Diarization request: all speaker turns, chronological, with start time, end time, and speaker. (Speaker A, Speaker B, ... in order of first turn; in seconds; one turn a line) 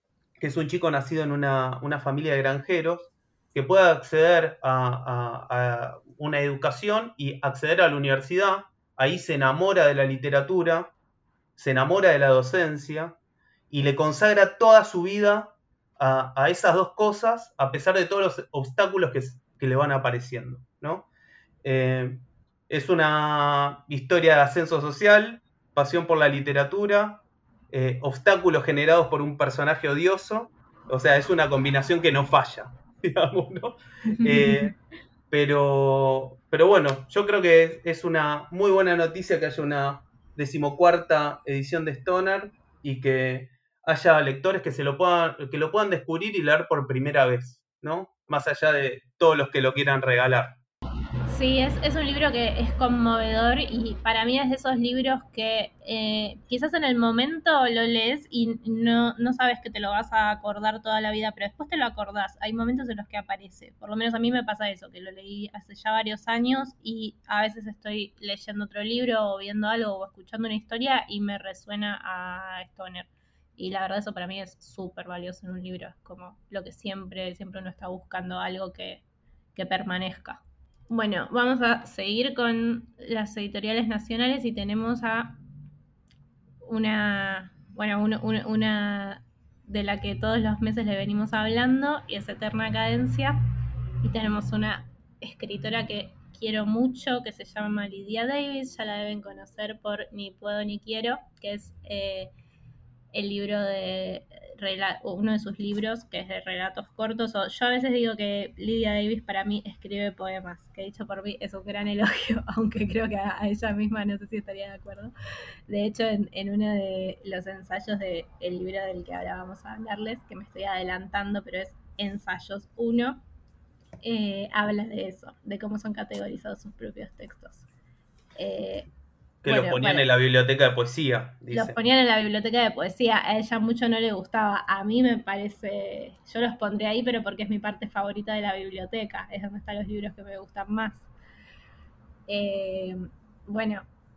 Speaker A: 0.4-10.9
Speaker A: 11.6-13.2
Speaker A: 13.7-21.1
Speaker A: 21.6-34.7
Speaker B: 34.1-34.7
Speaker A: 35.3-50.6
Speaker B: 51.3-79.0
Speaker B: 79.5-85.4
Speaker B: 86.6-93.4
Speaker B: 94.0-102.3
Speaker B: 103.1-115.1
Speaker B: 115.7-123.2
Speaker B: 124.0-127.7
Speaker B: 128.4-128.9
Speaker A: 129.4-131.8
Speaker B: 129.5-130.1
Speaker B: 131.5-141.1
Speaker B: 142.3-143.9